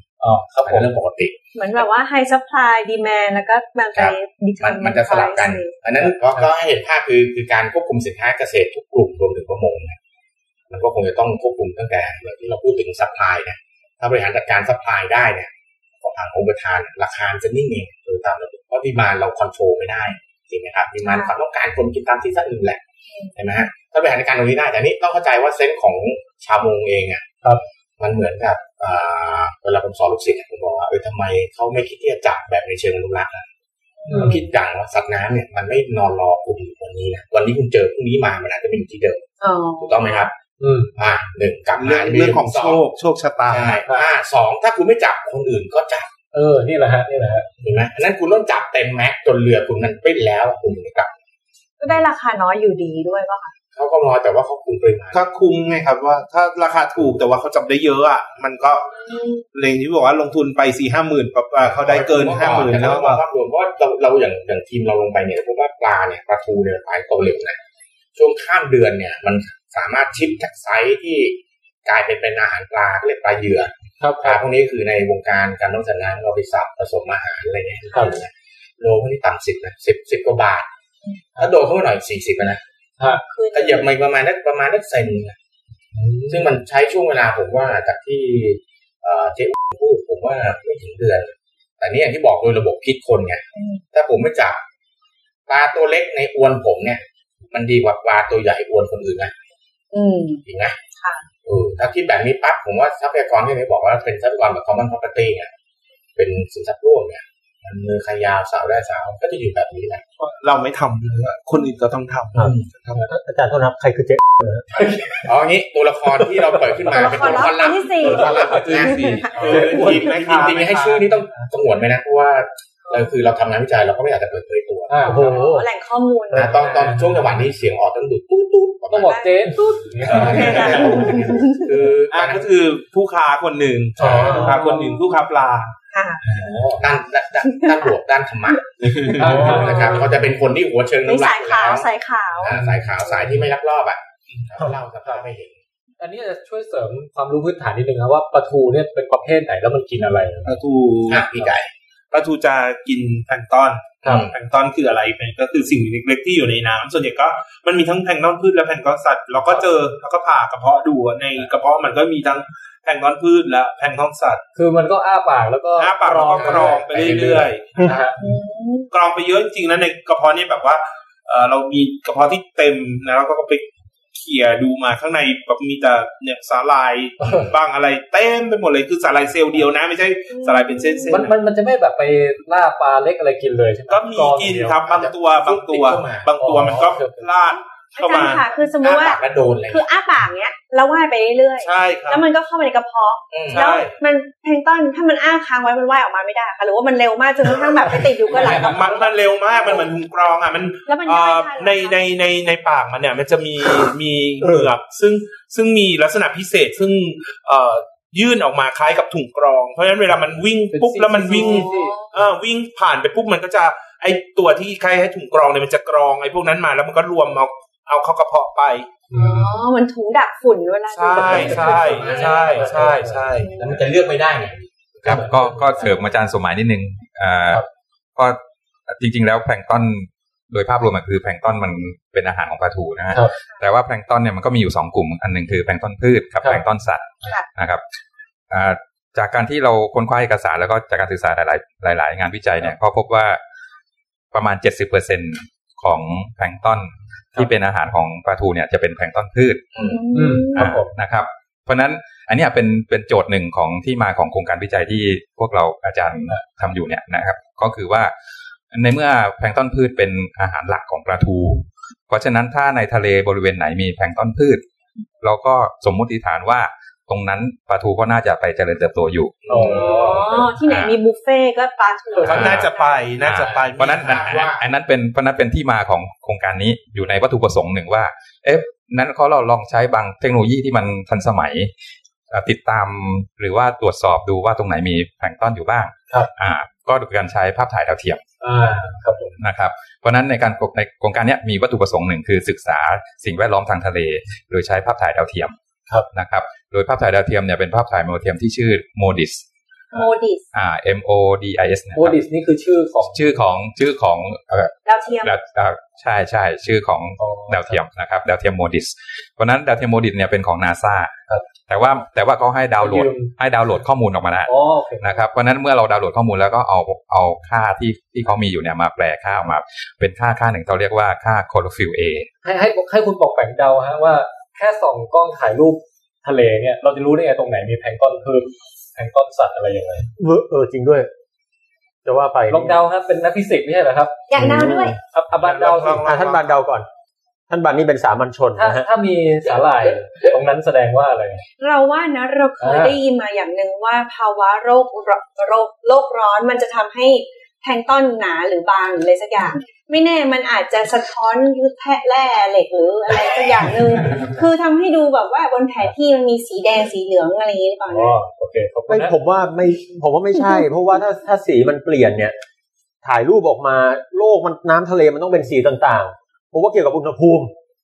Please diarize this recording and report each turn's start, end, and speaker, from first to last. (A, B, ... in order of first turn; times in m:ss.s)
0:00.2-0:00.9 A
0:00.6-0:01.4 B
0:01.6-0:05.7 C
0:03.9-0:10.0 B
0:06.0-0:06.5 A
0:10.7-0:15.5 B
0:16.0-0:22.8 B
0:21.1-0:21.3 C
0:23.4-0:27.2 B
0:28.0-0:33.4 B
0:34.0-0:34.4 C
0:34.1-0:34.4 A
0:34.1-0:39.3 B
0:39.4-0:40.3 C
0:39.8-0:40.3 B
0:40.6-0:40.9 A
0:41.0-0:42.8 B
0:41.8-0:43.8 D
0:43.5-0:46.1 B
0:46.3-0:47.5 A
0:47.6-0:51.1 B
0:51.8-0:53.5 C
0:53.7-0:55.3 B
0:55.1-0:58.9 D
0:59.0-0:59.4 C
0:59.5-1:03.2 D
1:01.6-1:07.6 B
1:08.2-1:20.7 B
1:14.0-1:14.4 A
1:17.9-1:18.2 C
1:21.4-1:22.6 B
1:23.3-1:23.9 C
1:23.5-1:25.4 B
1:26.0-1:26.6 A
1:26.3-1:34.6 B
1:33.6-1:33.8 C
1:35.5-1:39.3 B
1:39.9-1:40.4 C
1:40.5-1:40.8 B
1:41.0-1:41.2 C
1:41.4-1:45.5 B
1:46.2-1:50.0 B
1:50.2-1:53.0 D
1:52.4-1:52.7 B
1:53.1-1:54.7 E
1:54.8-1:55.2 A
1:54.8-2:05.4 B
1:56.9-1:59.6 C
1:58.2-2:01.0 D
1:59.4-2:00.4 A
2:04.9-2:05.6 A
2:05.0-2:06.6 C
2:05.1-2:05.7 E
2:06.3-2:09.3 B
2:06.6-2:07.2 A
2:08.9-2:10.9 A
2:09.0-2:11.9 C
2:10.0-2:12.5 B
2:10.1-2:11.0 D
2:12.1-2:15.7 D
2:14.0-2:14.6 B
2:14.3-2:14.9 A
2:14.4-2:15.1 C
2:15.9-2:16.2 C
2:16.3-2:25.6 B
2:17.4-2:17.9 C
2:18.8-2:19.6 D
2:19.2-2:20.0 A
2:19.2-2:20.1 C
2:21.0-2:22.6 C
2:22.5-2:23.4 A
2:26.0-2:30.6 A
2:30.4-2:31.3 D
2:31.1-2:31.7 B
2:32.1-2:44.4 D
2:34.0-2:34.3 B
2:44.6-2:48.2 A
2:45.8-2:47.7 D
2:46.2-2:47.5 B
2:48.2-2:48.9 C
2:48.9-3:01.4 D
3:00.3-3:01.2 C
3:01.1-3:05.0 A
3:03.9-3:08.5 D
3:04.9-3:06.3 B
3:06.4-3:07.3 A
3:08.0-3:19.8 C
3:08.8-3:09.9 B
3:11.6-3:12.2 D
3:13.3-3:13.7 B
3:13.5-3:13.9 D
3:18.3-3:38.9 D
3:18.3-3:19.0 A
3:20.9-3:22.1 C
3:24.4-3:24.7 E
3:30.7-3:32.0 A
3:31.3-3:32.1 C
3:39.1-3:39.6 A
3:39.1-3:42.7 C
3:40.9-3:43.6 D
3:41.2-3:45.9 B
3:41.3-3:43.2 A
3:43.3-3:43.8 C
3:45.0-3:47.6 F
3:45.1-3:45.4 A
3:48.2-3:57.8 F
3:58.5-4:03.4 F
4:04.3-4:09.6 F
4:09.7-4:10.0 B
4:09.8-4:10.7 C
4:10.1-4:10.9 A
4:10.6-4:18.1 F
4:18.7-4:24.6 F
4:25.2-4:29.7 F
4:29.4-4:30.5 B
4:29.5-4:30.2 A
4:29.6-4:33.1 C
4:30.5-4:30.9 F
4:32.1-4:32.5 A
4:32.2-4:34.4 D
4:32.3-4:32.7 F
4:33.2-4:41.7 F
4:33.6-4:34.6 B
4:42.3-4:48.2 F
4:48.4-4:49.4 A
4:49.4-4:55.6 F
4:56.1-4:59.4 F
4:59.9-5:00.5 C
5:00.5-5:02.2 F
5:02.0-5:03.4 A
5:03.1-5:04.7 F
5:04.9-5:05.4 C
5:05.2-5:11.1 F
5:07.2-5:07.8 A
5:11.7-5:22.3 F
5:12.8-5:13.3 A
5:14.5-5:15.2 A
5:22.4-5:30.1 A
5:30.2-5:31.1 E
5:32.0-5:32.8 E
5:32.5-5:34.2 A
5:34.3-5:35.0 C
5:34.4-5:35.0 E
5:35.1-5:36.1 A
5:35.4-5:36.6 D
5:36.0-5:36.9 E
5:37.5-5:38.9 E
5:38.6-5:41.4 A
5:41.6-5:58.2 C
5:42.6-5:43.0 A
5:57.9-5:59.2 A
5:58.9-6:02.4 E
6:03.0-6:07.5 E